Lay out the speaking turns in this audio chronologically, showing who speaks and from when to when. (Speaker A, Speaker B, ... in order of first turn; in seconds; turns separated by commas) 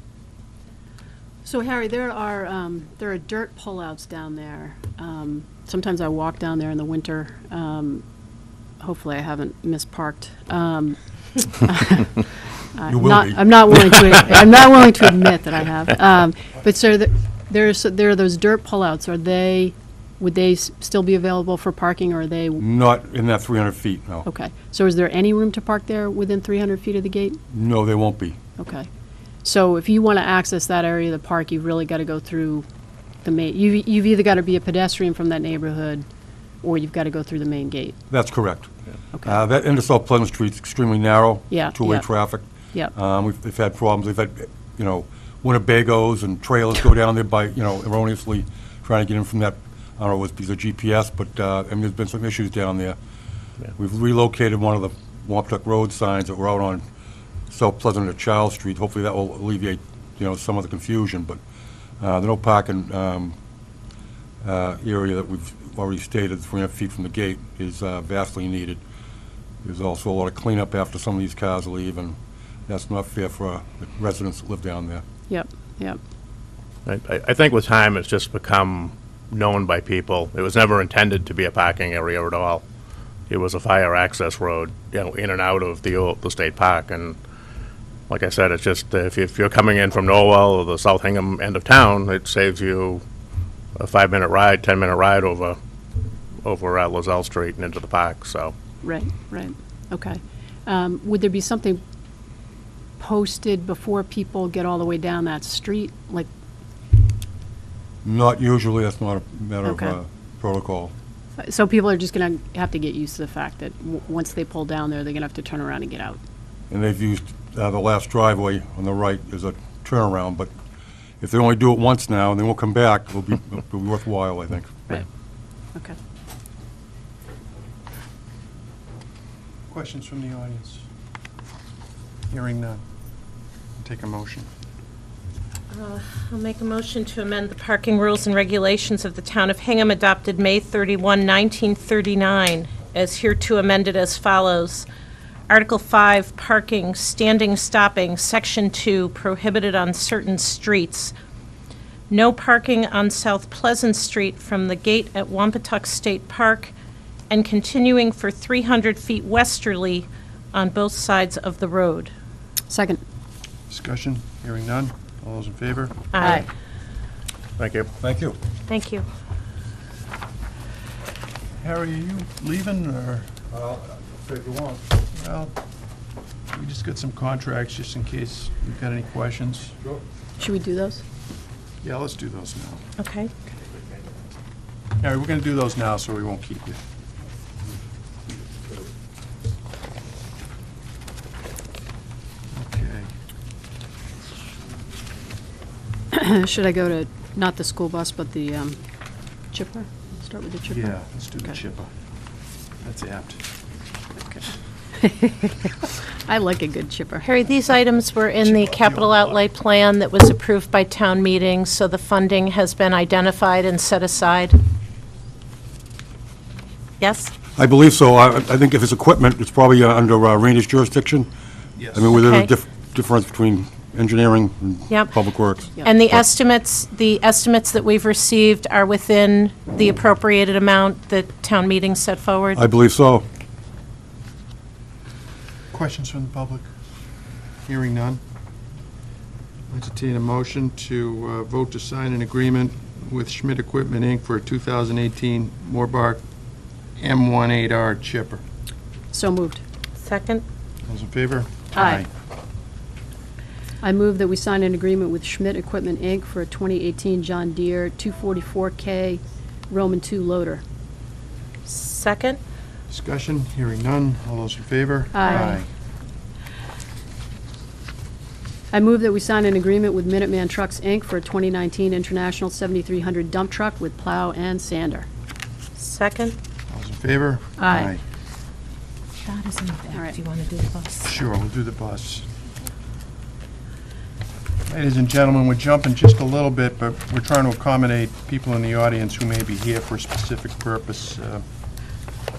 Speaker A: 1.4-8.0, Speaker A: 8.8-22.6, Speaker B: 12.8-14.3, Speaker B: 22.6-24.2, Speaker A: 24.2-27.4, Speaker B: 27.5-28.4, Speaker A: 28.6-28.9, Speaker A: 29.4-32.6, Speaker A: 33.2-36.0, Speaker A: 36.6-38.0, Speaker B: 38.1-38.7, Speaker B: 39.2-53.0, Speaker A: 41.5-42.1, Speaker B: 53.8-56.8, Speaker B: 57.5-61.4, Speaker B: 62.0-63.3, Speaker B: 64.4-68.8, Speaker B: 69.6-75.0, Speaker A: 75.3-76.0, Speaker C: 76.8-82.6, Speaker C: 83.3-87.2, Speaker C: 88.1-93.0, Speaker C: 93.8-95.6, Speaker C: 96.4-98.5, Speaker A: 98.8-101.8, Speaker A: 103.0-106.3, Speaker B: 108.0-110.9, Speaker A: 109.6-110.0, Speaker A: 111.4-116.2, Speaker B: 116.7-120.5, Speaker B: 121.2-125.0, Speaker D: 129.7-130.8, Speaker D: 132.3-132.8, Speaker D: 133.8-134.5, Speaker E: 135.7-144.9, Speaker E: 145.5-151.1, Speaker E: 152.1-156.7, Speaker E: 157.3-162.1, Speaker A: 162.7-163.0, Speaker D: 163.7-166.0, Speaker E: 166.1-166.4, Speaker A: 166.2-166.4, Speaker C: 167.6-167.9, Speaker B: 168.0-168.4, Speaker E: 168.7-169.1, Speaker D: 171.6-173.3, Speaker B: 173.5-174.8, Speaker D: 175.1-175.5, Speaker D: 176.5-179.8, Speaker A: 180.4-181.0, Speaker D: 181.8-182.8, Speaker E: 183.0-183.3, Speaker D: 185.0-186.8, Speaker D: 192.5-193.1, Speaker A: 196.1-198.8, Speaker A: 199.5-200.9, Speaker D: 200.7-201.9, Speaker D: 202.8-203.4, Speaker A: 204.2-207.3, Speaker E: 207.2-214.6, Speaker D: 208.4-209.4, Speaker E: 217.0-217.3, Speaker B: 217.6-221.3, Speaker D: 221.8-222.1, Speaker B: 221.9-225.7, Speaker E: 222.1-222.5, Speaker E: 225.8-232.6, Speaker B: 232.5-233.2, Speaker D: 235.7-236.7, Speaker D: 237.6-238.2, Speaker D: 239.7-246.2, Speaker D: 247.0-248.4, Speaker A: 249.1-249.6, Speaker E: 250.0-250.4, Speaker D: 250.8-252.1, Speaker A: 251.7-252.0, Speaker A: 253.8-260.6, Speaker E: 261.6-262.4, Speaker D: 262.9-265.7, Speaker A: 265.1-265.6, Speaker A: 268.7-275.1, Speaker E: 275.8-276.4, Speaker D: 276.7-278.0, Speaker A: 277.6-277.9, Speaker E: 279.2-281.1, Speaker D: 281.0-282.2, Speaker D: 284.6-291.4